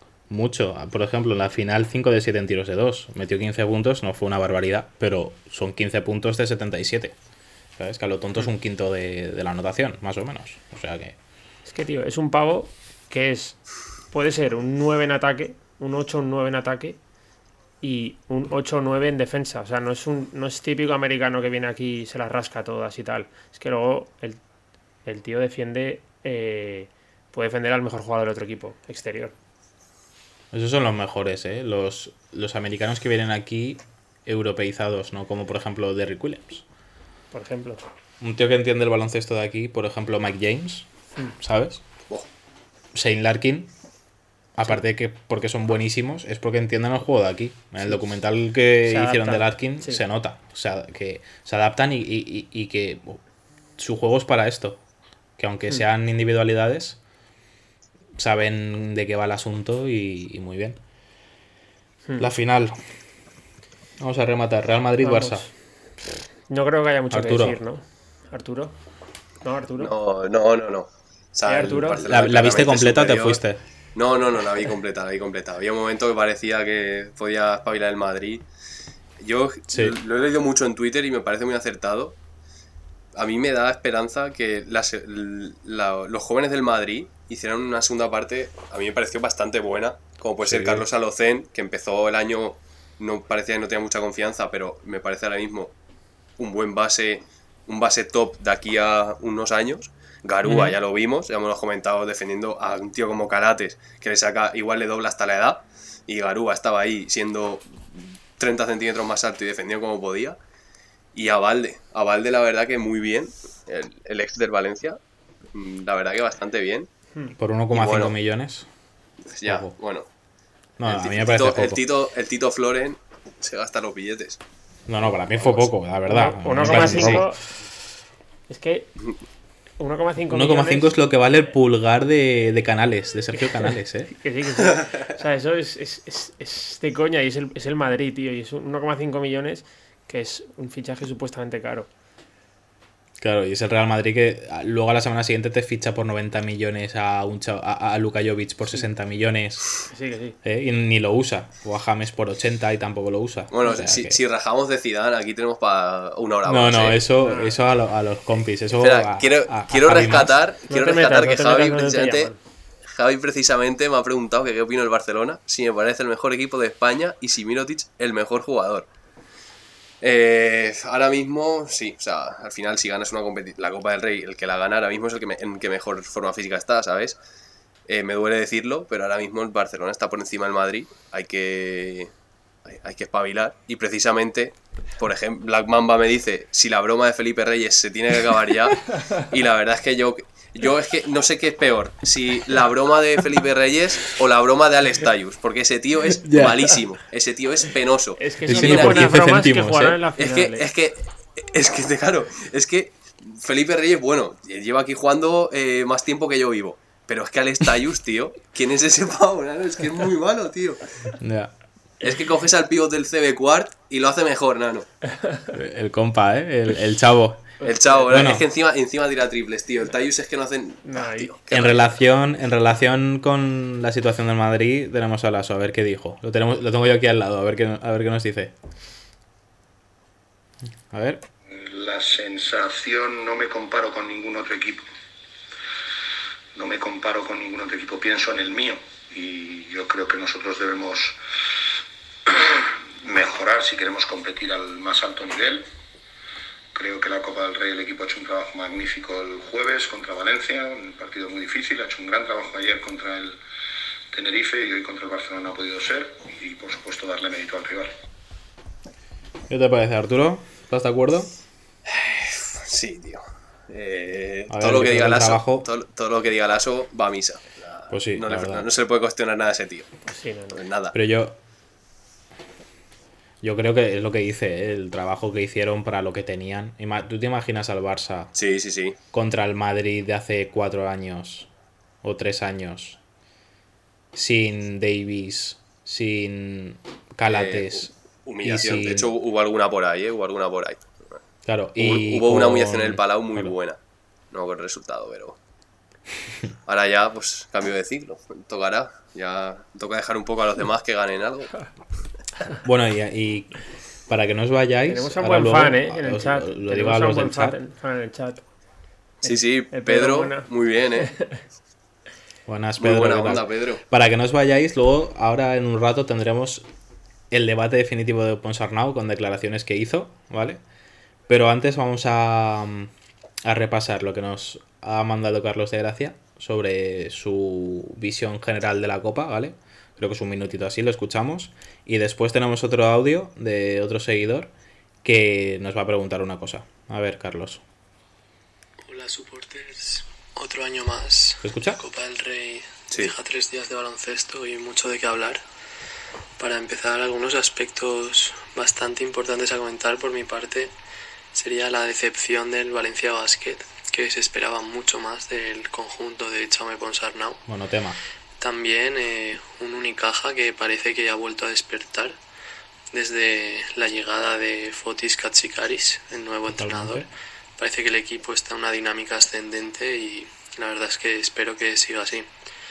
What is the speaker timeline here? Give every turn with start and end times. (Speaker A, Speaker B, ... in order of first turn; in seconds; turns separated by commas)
Speaker A: 0.3-7.2, Speaker A: 7.8-11.2, Speaker B: 11.7-17.0, Speaker B: 17.8-24.4, Speaker B: 25.1-29.3, Speaker A: 30.5-36.6, Speaker B: 37.3-37.8, Speaker A: 38.2-40.9, Speaker A: 41.4-41.8, Speaker A: 42.9-43.7, Speaker A: 44.5-53.2, Speaker B: 48.9-50.0, Speaker A: 53.8-54.8, Speaker A: 55.4-57.0, Speaker A: 58.2-60.8, Speaker A: 62.2-62.8, Speaker A: 64.0-65.5, Speaker B: 65.0-65.5, Speaker B: 66.5-68.8, Speaker A: 67.1-67.6, Speaker B: 69.4-69.9, Speaker C: 69.8-73.4, Speaker B: 71.5-72.0, Speaker A: 72.1-73.6, Speaker C: 74.0-78.4, Speaker C: 79.2-82.2, Speaker A: 79.7-80.0, Speaker C: 83.2-95.7, Speaker A: 90.4-90.9, Speaker C: 96.4-110.4, Speaker A: 100.4-100.7, Speaker C: 111.1-115.0, Speaker C: 115.5-116.9, Speaker A: 117.4-118.7, Speaker C: 117.7-118.1, Speaker C: 119.3-120.1, Speaker A: 119.4-119.7, Speaker A: 120.8-121.8, Speaker C: 120.8-124.4, Speaker A: 124.9-127.4, Speaker C: 125.4-125.7, Speaker B: 126.1-127.4, Speaker C: 126.7-127.2, Speaker B: 128.5-128.9, Speaker B: 129.8-130.9, Speaker A: 130.3-134.1, Speaker B: 133.4-141.9, Speaker A: 143.2-149.7, Speaker B: 149.9-150.4, Speaker A: 150.4-154.2, Speaker C: 153.5-157.0, Speaker A: 156.5-160.4, Speaker B: 157.2-157.6, Speaker C: 158.8-162.3, Speaker B: 160.7-162.4, Speaker C: 162.9-168.9, Speaker C: 170.0-177.2, Speaker C: 177.9-182.1, Speaker C: 182.7-199.1, Speaker A: 196.2-196.7, Speaker B: 198.2-200.7, Speaker A: 198.5-200.0, Speaker C: 200.2-211.1, Speaker A: 211.2-211.5, Speaker C: 212.0-214.9, Speaker A: 215.5-217.5, Speaker C: 217.6-221.9, Speaker A: 218.1-218.4, Speaker B: 220.8-221.3, Speaker A: 221.5-228.5, Speaker A: 230.9-231.2, Speaker D: 231.5-234.9, Speaker D: 236.6-241.2, Speaker D: 242.3-245.7, Speaker D: 246.8-253.4, Speaker D: 254.1-257.9, Speaker A: 259.5-261.3, Speaker C: 261.9-269.9, Speaker A: 264.5-265.7, Speaker A: 267.9-268.7, Speaker B: 270.1-270.6, Speaker C: 270.5-270.9, Speaker A: 270.9-271.4, Speaker A: 273.4-278.3, Speaker C: 278.4-279.0, Speaker A: 279.1-281.5, Speaker A: 282.0-283.0, Speaker A: 284.1-287.9, Speaker C: 287.3-291.2, Speaker A: 288.4-289.1, Speaker A: 291.5-293.6, Speaker C: 291.8-293.8, Speaker C: 294.3-295.4, Speaker C: 296.7-301.6, Speaker A: 302.6-307.6, Speaker B: 304.9-308.4, Speaker C: 309.2-311.1, Speaker B: 309.2-310.5, Speaker B: 311.1-311.4, Speaker A: 312.5-316.6, Speaker C: 312.8-313.8, Speaker A: 317.3-320.6, Speaker A: 321.3-322.9, Speaker A: 323.4-334.5, Speaker A: 335.0-337.6, Speaker E: 338.9-345.4, Speaker A: 341.4-341.8, Speaker E: 346.4-350.7, Speaker E: 351.3-357.4, Speaker A: 357.5-358.0, Speaker E: 358.4-362.2, Speaker E: 362.9-372.3, Speaker A: 366.5-367.1